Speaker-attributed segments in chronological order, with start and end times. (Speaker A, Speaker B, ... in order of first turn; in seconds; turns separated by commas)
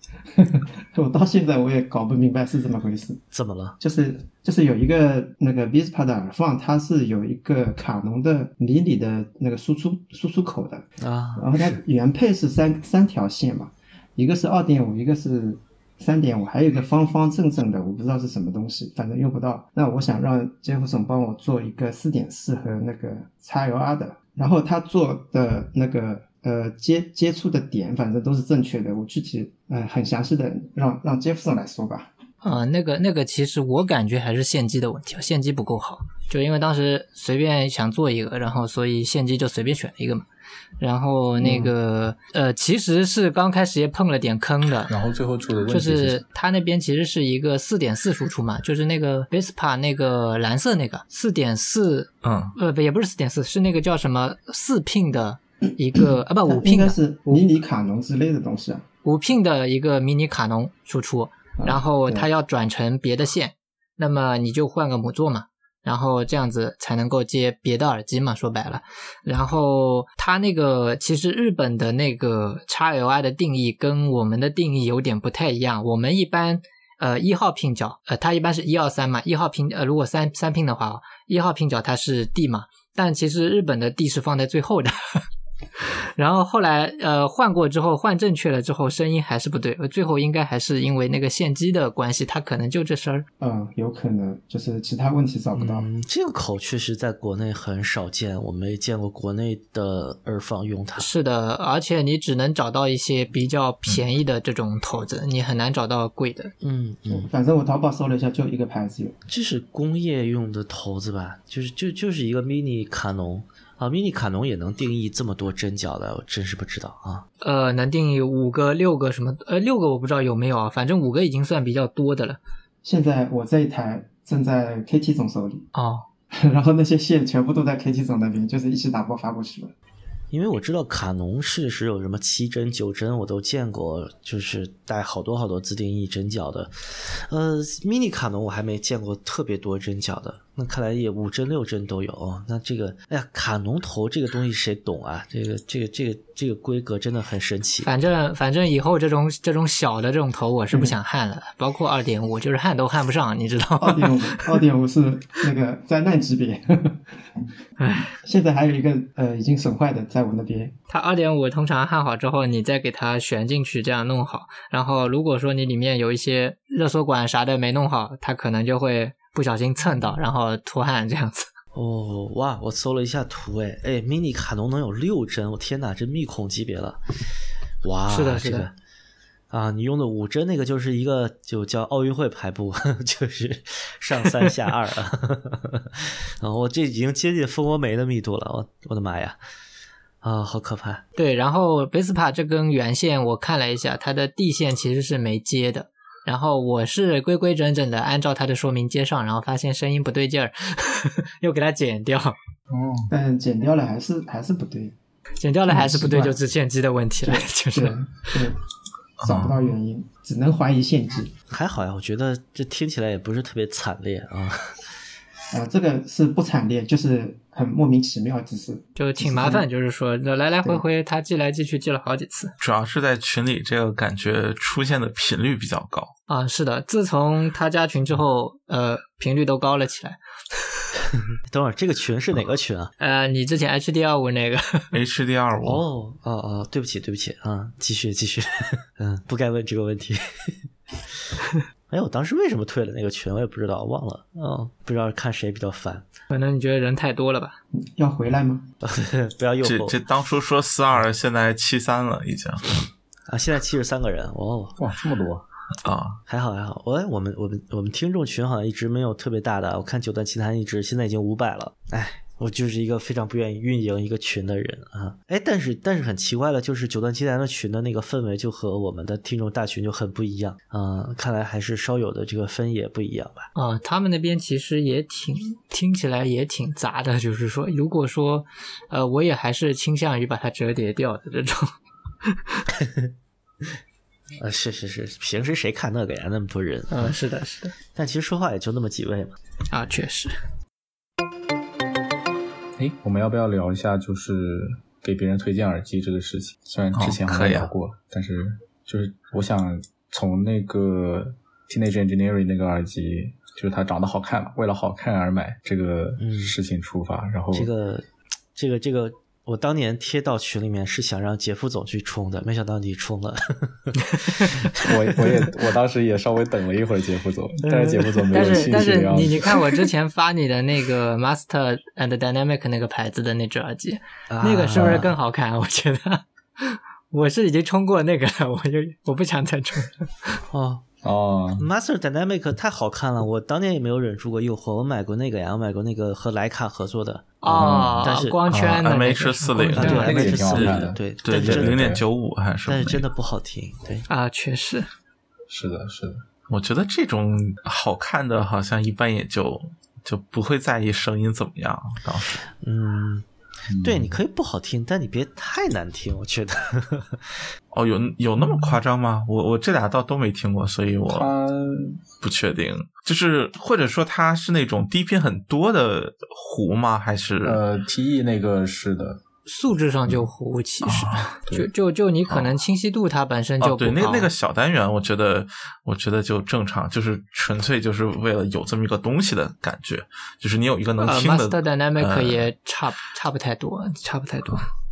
Speaker A: 0.3-3.2, Speaker B: 3.3-3.8, Speaker A: 3.8-10.8, Speaker B: 11.0-11.8, Speaker A: 11.4-32.1, Speaker C: 32.4-40.3, Speaker C: 40.8-44.9, Speaker D: 44.9-46.2, Speaker C: 45.7-57.5, Speaker E: 52.2-52.6, Speaker A: 56.5-58.9, Speaker C: 59.0-85.2, Speaker A: 61.6-62.3, Speaker C: 85.8-93.3, Speaker A: 93.4-95.9, Speaker B: 95.5-101.1, Speaker C: 101.0-106.5, Speaker B: 106.6-107.3, Speaker A: 107.1-109.2, Speaker B: 109.3-117.2, Speaker C: 117.4-122.4, Speaker A: 122.8-125.7, Speaker C: 125.8-126.0, Speaker A: 126.3-129.7, Speaker B: 130.3-147.9, Speaker C: 147.8-154.5, Speaker A: 153.8-157.0, Speaker C: 157.8-158.2, Speaker A: 158.2-160.8, Speaker C: 160.9-171.5, Speaker B: 171.7-177.0, Speaker B: 177.8-178.8, Speaker C: 178.1-178.7, Speaker B: 179.5-189.4, Speaker B: 190.2-191.0, Speaker C: 191.2-202.4, Speaker D: 202.7-203.1, Speaker A: 203.1-204.9, Speaker C: 205.4-208.3, Speaker A: 205.7-206.4, Speaker A: 207.2-208.6, Speaker E: 209.2-209.6, Speaker A: 209.2-211.3, Speaker B: 211.5-214.9, Speaker A: 215.5-219.7, Speaker C: 219.0-222.5, Speaker E: 222.6-226.1, Speaker C: 226.3-230.9, Speaker B: 231.5-232.9, Speaker C: 233.0-234.9, Speaker E: 234.9-235.8, Speaker B: 235.7-240.6, Speaker B: 241.9-246.1, Speaker C: 246.3-247.6, Speaker A: 247.8-248.7, Speaker B: 248.8-250.0, Speaker E: 249.6-252.8, Speaker B: 253.3-254.8, Speaker D: 254.8-255.4, Speaker E: 255.8-256.2, Speaker B: 256.3-273.5, Speaker C: 273.6-281.7, Speaker C: 282.3-282.6, Speaker B: 282.8-283.1, Speaker B: 284.4-287.1, Speaker C: 286.9-287.8, Speaker B: 287.9-289.4, Speaker C: 289.7-290.4, Speaker D: 292.8-307.7, Speaker E: 296.9-297.7, Speaker B: 306.2-306.6, Speaker B: 307.5-315.6, Speaker D: 314.8-319.6, Speaker B: 317.9-318.6, Speaker C: 318.3-330.1, Speaker B: 324.3-325.1, Speaker B: 330.5-330.9, Speaker D: 331.0-331.7, Speaker B: 331.6-338.4, Speaker C: 337.4-340.2, Speaker D: 337.5-338.1, Speaker E: 338.5-343.0, Speaker B: 339.8-341.9, Speaker D: 339.9-342.0, Speaker B: 342.7-344.1, Speaker C: 344.1-344.9, Speaker D: 345.5-346.2, Speaker E: 346.5-352.4, Speaker B: 352.4-353.3, Speaker D: 353.7-354.2, Speaker B: 353.8-357.4, Speaker E: 357.7-361.3, Speaker D: 361.1-362.0, Speaker E: 362.2-367.6, Speaker D: 367.4-369.2, Speaker C: 369.5-374.3, Speaker E: 370.9-371.3, Speaker E: 372.3-372.6, Speaker E: 373.6-382.5, Speaker C: 381.0-384.7